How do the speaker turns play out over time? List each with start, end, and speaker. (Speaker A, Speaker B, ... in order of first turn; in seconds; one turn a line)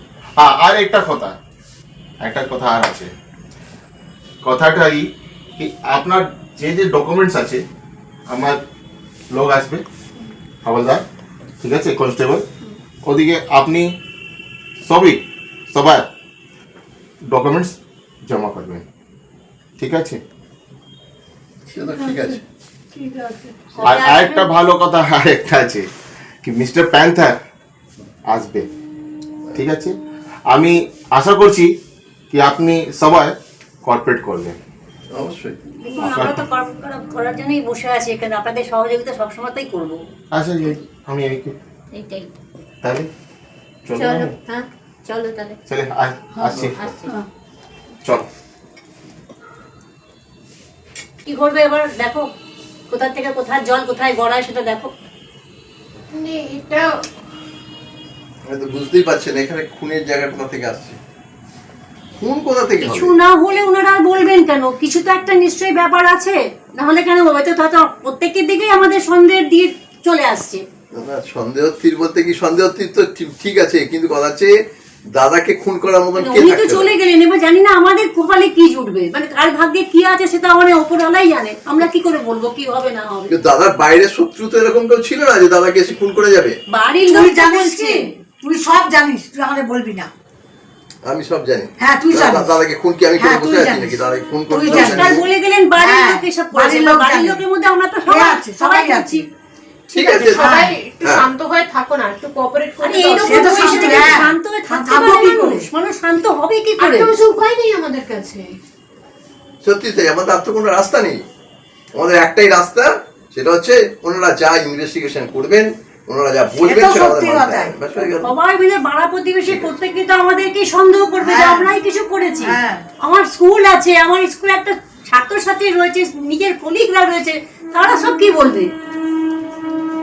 Speaker A: 0.4-1.3
Speaker A: 2.2-3.1
Speaker A: 4.4-5.0
Speaker A: 5.6-7.6
Speaker A: 8.3-8.6
Speaker A: 9.3-9.8
Speaker A: 10.6-11.0
Speaker A: 11.6-12.4
Speaker A: 13.0-13.9
Speaker A: 14.8-16.1
Speaker A: 17.3-17.7
Speaker A: 18.3-18.8
Speaker A: 19.8-20.2
Speaker B: 21.7-22.4
Speaker C: 21.9-22.4
Speaker C: 23.1-23.5
Speaker D: 23.7-24.5
Speaker A: 23.8-25.9
Speaker A: 26.4-27.4
Speaker A: 28.3-28.6
Speaker A: 29.5-29.9
Speaker A: 30.5-31.7
Speaker A: 32.3-33.3
Speaker A: 33.9-34.6
Speaker B: 35.1-35.6
Speaker D: 35.8-40.0
Speaker A: 36.0-36.4
Speaker A: 40.3-41.5
Speaker E: 41.9-42.3
Speaker A: 42.8-43.1
Speaker A: 43.9-44.4
Speaker E: 44.0-45.6
Speaker A: 45.7-46.8
Speaker F: 46.5-47.2
Speaker E: 46.6-47.1
Speaker D: 51.2-52.3
Speaker D: 52.9-54.9
Speaker C: 56.1-57.0
Speaker B: 58.5-61.0
Speaker B: 62.2-63.2
Speaker D: 62.8-70.6
Speaker B: 70.9-74.5
Speaker B: 75.1-76.9
Speaker D: 76.2-83.3
Speaker B: 83.3-86.6
Speaker D: 86.7-88.1
Speaker F: 87.1-90.1
Speaker B: 91.0-95.2
Speaker F: 91.8-92.6
Speaker F: 93.2-95.2
Speaker D: 94.6-99.2
Speaker F: 95.8-97.4
Speaker F: 98.1-99.3
Speaker C: 99.9-104.3
Speaker B: 99.9-101.2
Speaker F: 100.4-100.7
Speaker D: 102.8-107.1
Speaker F: 103.2-105.7
Speaker C: 106.8-108.5
Speaker B: 109.6-111.2
Speaker B: 111.9-118.3
Speaker F: 116.5-117.8
Speaker D: 118.2-128.7
Speaker B: 119.5-119.7
Speaker F: 121.2-121.7
Speaker F: 122.4-122.8